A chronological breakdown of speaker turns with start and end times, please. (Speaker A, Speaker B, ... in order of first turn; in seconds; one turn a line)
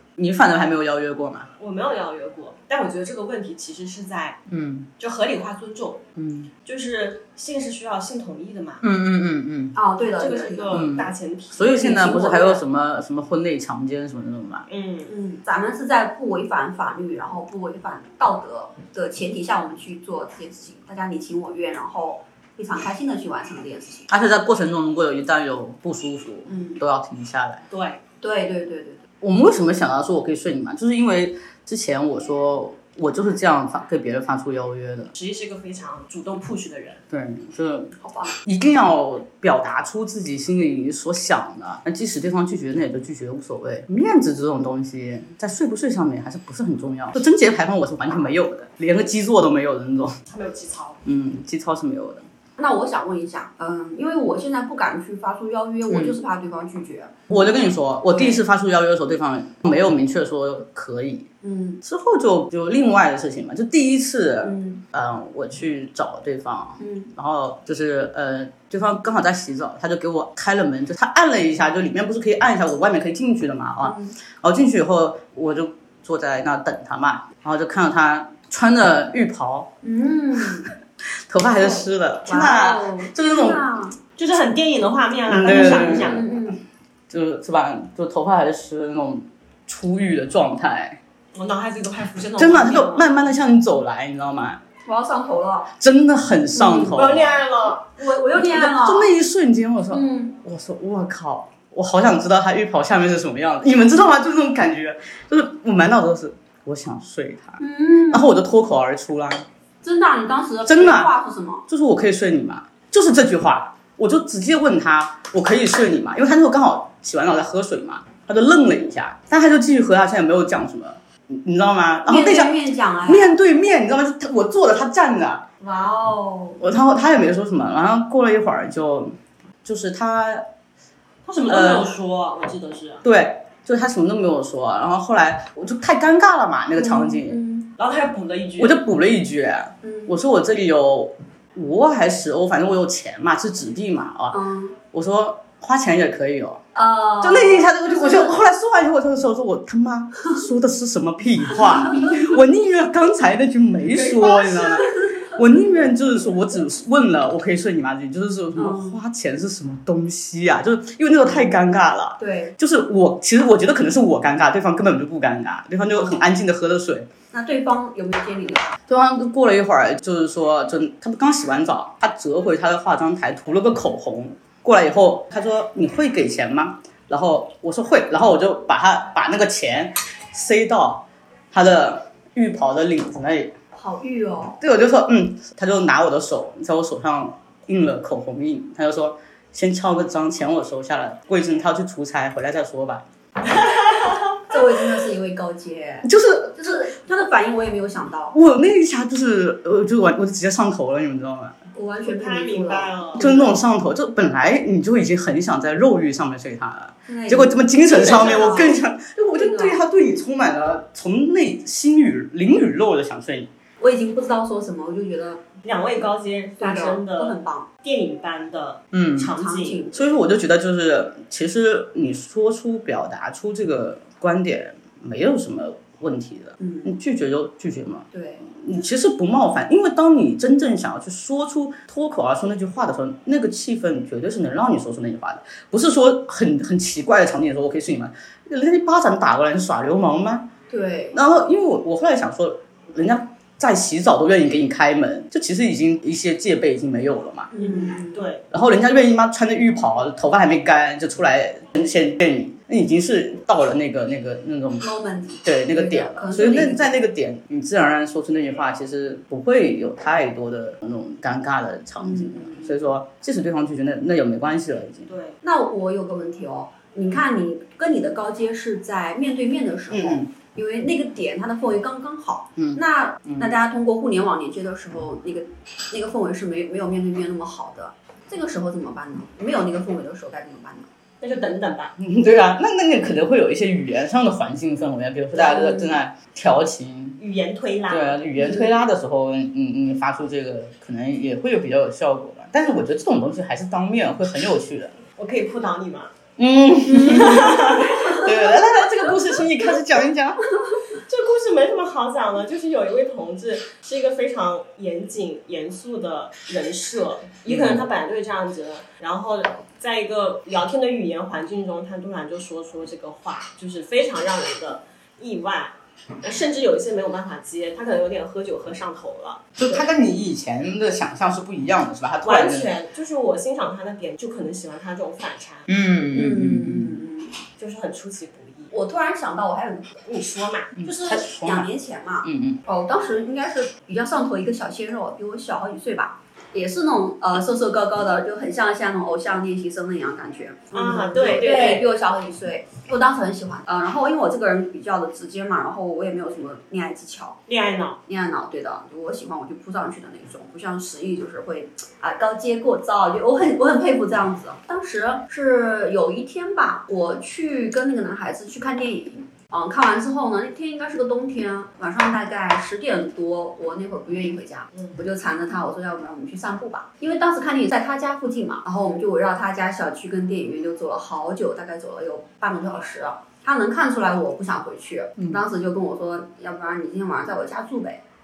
Speaker A: 0.2-1.5
Speaker B: 1.6-4.4
Speaker A: 4.5-4.9
Speaker B: 5.0-6.1
Speaker A: 6.2-6.5
Speaker B: 6.7-8.8
Speaker A: 8.8-9.8
Speaker C: 9.8-10.8
Speaker B: 10.2-12.6
Speaker A: 10.7-14.7
Speaker B: 14.7-15.1
Speaker C: 15.1-24.1
Speaker A: 24.1-27.6
Speaker C: 26.5-26.8
Speaker B: 27.7-28.0
Speaker C: 28.2-29.1
Speaker A: 29.2-35.1
Speaker B: 35.1-37.0
Speaker A: 37.1-37.9
Speaker C: 38.0-38.4
Speaker A: 38.5-50.2
Speaker B: 50.3-51.0
Speaker A: 51.0-52.3
Speaker C: 52.6-57.2
Speaker A: 55.9-56.2
Speaker A: 57.3-61.3
Speaker C: 61.4-61.8
Speaker A: 61.8-79.7
Speaker C: 64.4-64.8
Speaker C: 66.8-67.1
Speaker C: 73.8-74.2
Speaker C: 79.8-80.7
Speaker A: 81.3-83.6
Speaker C: 81.6-84.0
Speaker B: 84.2-86.3
Speaker A: 85.3-86.3
Speaker C: 85.4-86.6
Speaker A: 87.1-91.0
Speaker B: 91.3-93.1
Speaker A: 92.4-94.6
Speaker C: 94.8-95.7
Speaker A: 95.8-97.5
Speaker C: 96.5-97.1
Speaker B: 96.7-97.9
Speaker C: 97.8-99.1
Speaker A: 98.3-109.5
Speaker C: 99.9-100.4
Speaker C: 107.6-108.3
Speaker C: 109.8-111.7
Speaker A: 110.7-111.1
Speaker A: 111.7-125.5
Speaker C: 122.1-123.3
Speaker C: 125.6-126.6
Speaker A: 126.6-130.5
Speaker B: 131.3-133.1
Speaker A: 131.5-131.9
Speaker A: 133.0-137.4
Speaker C: 136.8-137.7
Speaker B: 137.8-138.8
Speaker A: 138.6-144.4
Speaker C: 139.8-140.1
Speaker C: 144.3-144.8
Speaker A: 144.9-146.6
Speaker C: 146.8-148.4
Speaker A: 147.2-167.1
Speaker C: 153.9-155.3
Speaker C: 158.6-159.0
Speaker C: 162.2-162.6
Speaker C: 165.9-166.2
Speaker C: 167.3-168.8
Speaker A: 168.9-183.6
Speaker C: 183.8-184.6
Speaker A: 184.6-193.1
Speaker B: 193.6-194.2
Speaker C: 194.5-198.3
Speaker A: 196.0-196.9
Speaker A: 198.3-201.6
Speaker C: 201.7-203.5
Speaker B: 202.0-203.4
Speaker A: 203.2-213.5
Speaker C: 207.1-208.8
Speaker B: 207.9-208.8
Speaker C: 209.3-209.8
Speaker C: 213.8-215.4
Speaker B: 215.6-219.8
Speaker C: 216.6-217.7
Speaker A: 218.9-219.3
Speaker C: 219.3-220.2
Speaker A: 219.9-240.5
Speaker C: 226.6-226.9
Speaker C: 228.1-228.5
Speaker C: 240.7-241.2
Speaker A: 241.1-247.5
Speaker C: 247.5-248.2
Speaker B: 247.5-248.4
Speaker A: 248.5-254.9
Speaker C: 254.8-256.9
Speaker A: 255.4-265.1
Speaker C: 262.0-262.8
Speaker B: 265.1-265.4
Speaker C: 265.4-280.9
Speaker A: 269.9-270.3
Speaker A: 272.6-273.6
Speaker B: 281.2-281.9
Speaker A: 282.0-287.2
Speaker C: 285.3-286.0
Speaker B: 287.2-288.3
Speaker A: 287.9-294.9
Speaker C: 288.4-288.7
Speaker B: 295.2-296.1
Speaker A: 296.4-300.5
Speaker C: 296.9-298.3
Speaker B: 297.1-298.2
Speaker B: 301.1-319.5
Speaker A: 307.5-307.9
Speaker A: 319.6-322.7
Speaker B: 322.2-325.7
Speaker A: 325.7-327.0
Speaker C: 326.1-327.4
Speaker B: 327.6-328.8
Speaker C: 328.7-330.0
Speaker B: 330.1-330.8
Speaker A: 330.8-331.7
Speaker C: 330.8-347.4
Speaker A: 332.2-332.6
Speaker B: 340.7-341.9
Speaker B: 347.5-348.0
Speaker C: 348.1-378.0